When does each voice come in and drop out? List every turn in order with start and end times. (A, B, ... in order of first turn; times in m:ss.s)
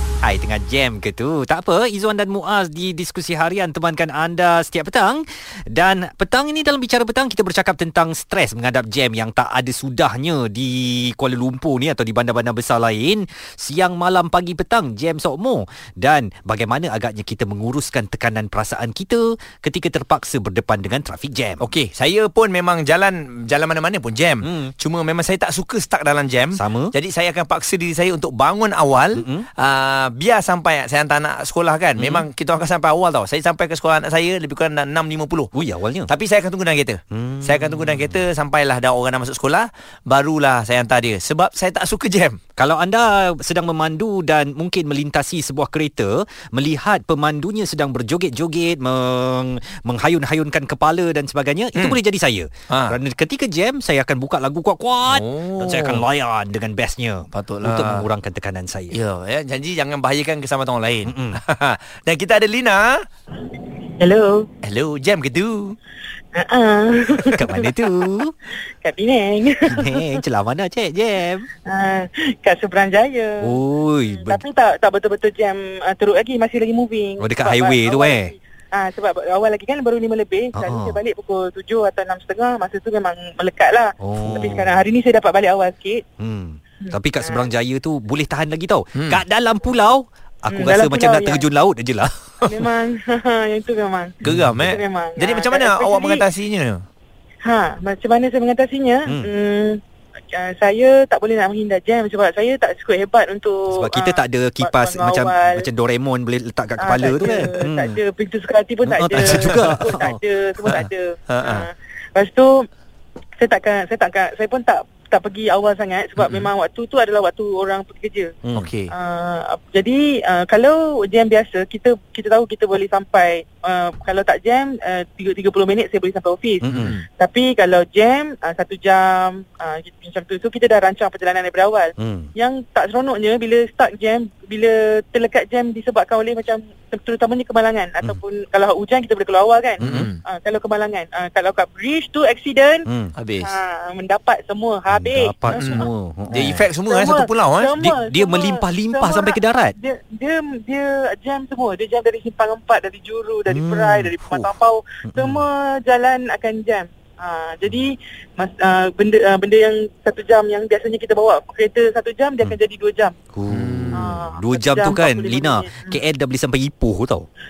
0:00.2-0:21.6 A
0:21.6-0:35.5 B
0:24.4-0:24.7 A
0:26.6-0:27.0 A
0:29.2-0:29.5 A
0:32.0-0:32.3 A
0:35.5-0:36.1 A
0:36.1-0:42.4 B
0:37.1-0:38.2 A
0:42.6-0:59.0 A
0:52.7-0:53.0 B
0:55.1-0:56.0 B
0:57.3-0:58.1 B
0:58.9-1:03.0 B
1:01.1-1:01.4 A
1:04.0-1:04.5 C
1:04.6-1:05.8 B
1:06.4-1:07.9 C
1:07.3-1:08.3 A
1:08.8-1:10.2 C
1:09.6-1:11.5 A
1:11.7-1:13.6 C
1:13.4-1:14.4 A
1:14.1-1:26.0 C
1:17.2-1:18.3 A
1:20.6-1:21.0 A
1:24.0-1:24.7 A
1:24.2-1:24.6 B
1:26.2-1:32.6 A
1:26.8-1:27.5 C
1:30.5-1:31.4 C
1:32.5-1:36.2 C
1:34.2-1:36.8 B
1:37.4-1:39.8 C
1:40.3-1:45.7 C
1:43.7-1:48.0 A
1:46.8-1:52.7 C
1:48.8-1:50.2 A
1:49.4-1:49.8 B
1:50.6-1:51.7 B
1:53.4-1:58.4 C
1:56.2-1:56.5 B
1:58.5-1:58.9 B
1:58.9-2:22.9 C
2:06.6-2:07.0 A
2:06.7-2:07.0 B
2:12.0-2:12.3 A
2:19.8-2:20.2 B
2:19.8-2:20.1 A
2:22.9-2:23.1 A
2:23.2-2:23.6 B
2:23.4-2:25.9 C
2:24.9-2:26.7 A
2:25.6-2:27.7 B
2:26.9-2:43.2 C
2:27.8-2:29.7 A
2:33.5-2:34.5 A
2:35.1-2:35.4 A
2:43.3-2:47.3 A
2:43.5-2:44.1 B
2:43.9-2:46.0 C